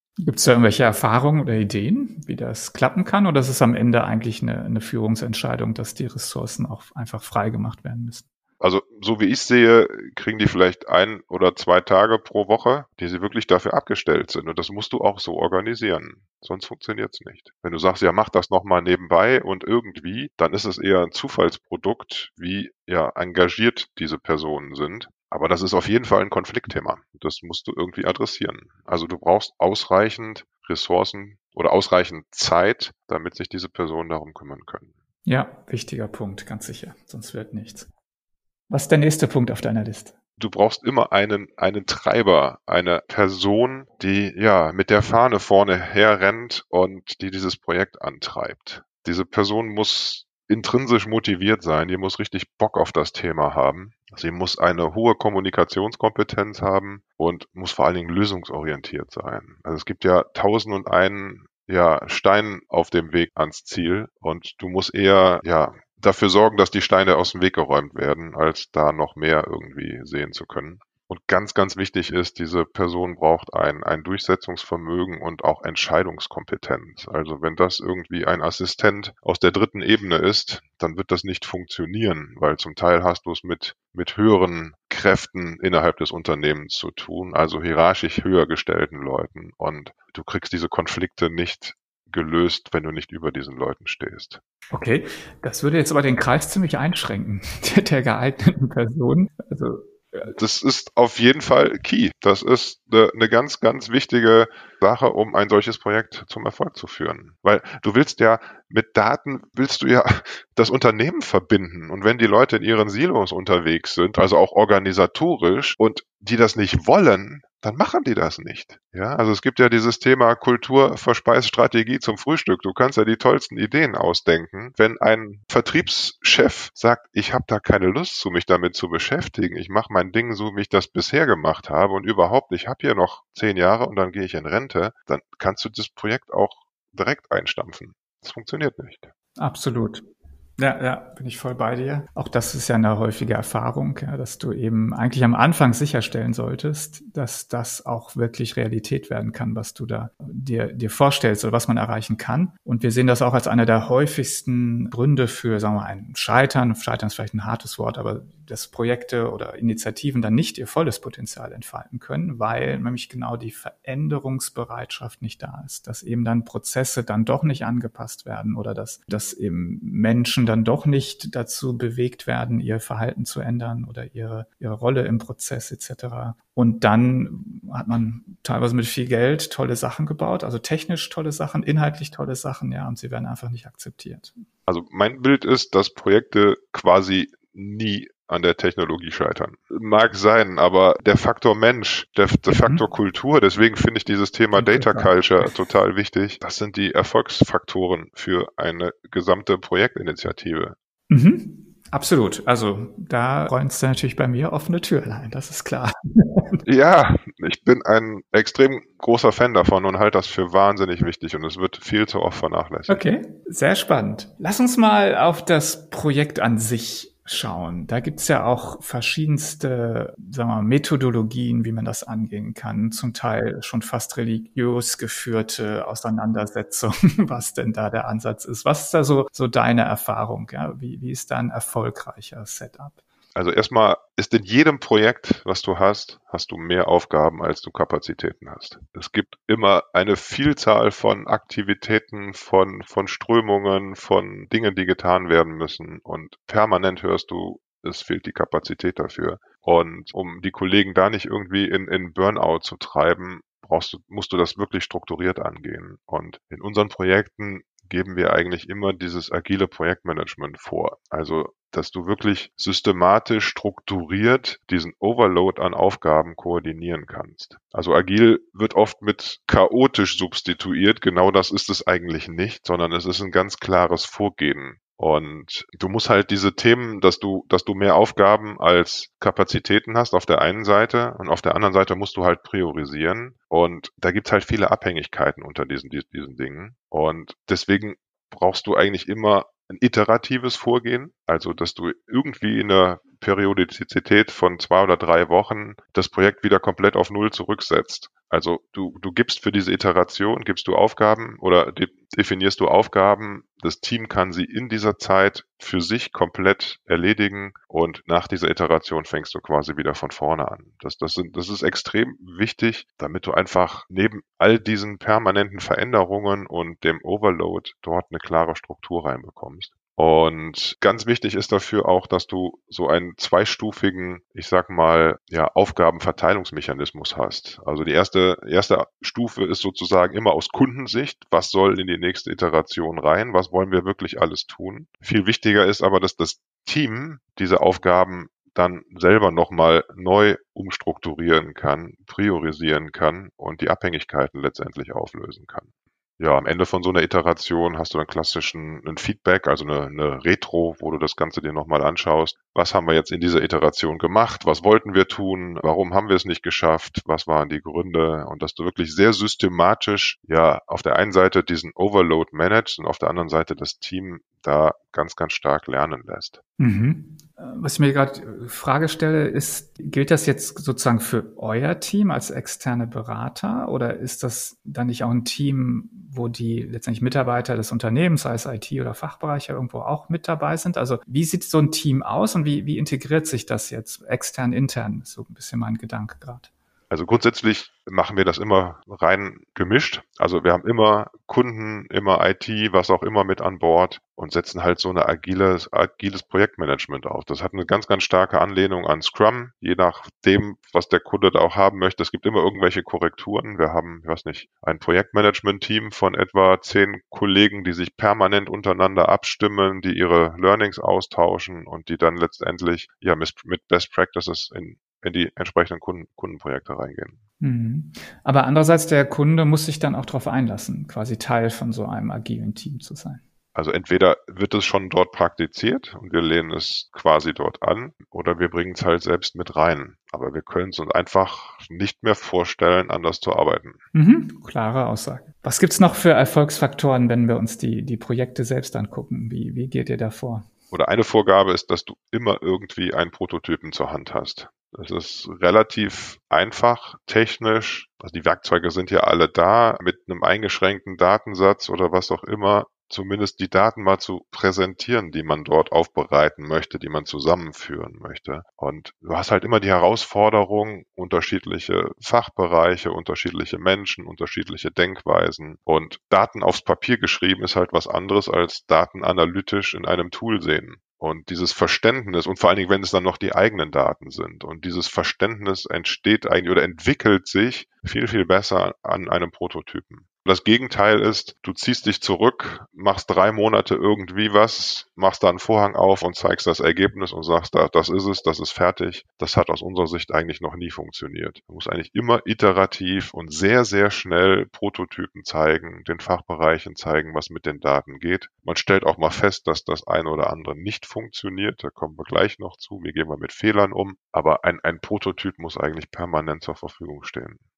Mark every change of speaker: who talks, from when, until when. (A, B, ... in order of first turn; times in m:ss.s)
0:00.2-0:08.2 A
0:08.6-0:34.9 B
0:35.2-0:37.9 A
0:38.7-0:40.1 A
0:40.4-1:34.4 B
1:34.7-1:40.3 A
1:40.2-2:19.1 B
2:19.4-2:20.0 A
2:20.6-3:04.4 A
3:04.7-3:20.7 B
3:12.5-3:12.8 A
3:14.5-3:15.5 A
3:21.1-3:26.6 A
3:26.6-3:33.0 B
3:32.9-3:53.0 A
3:53.3-5:45.7 B
5:46.2-6:06.4 B
6:06.6-6:26.5 A
6:26.9-6:57.2 B
6:57.4-7:03.2 A
7:03.5-7:13.8 B
7:13.9-7:20.5 A
7:20.7-8:27.4 B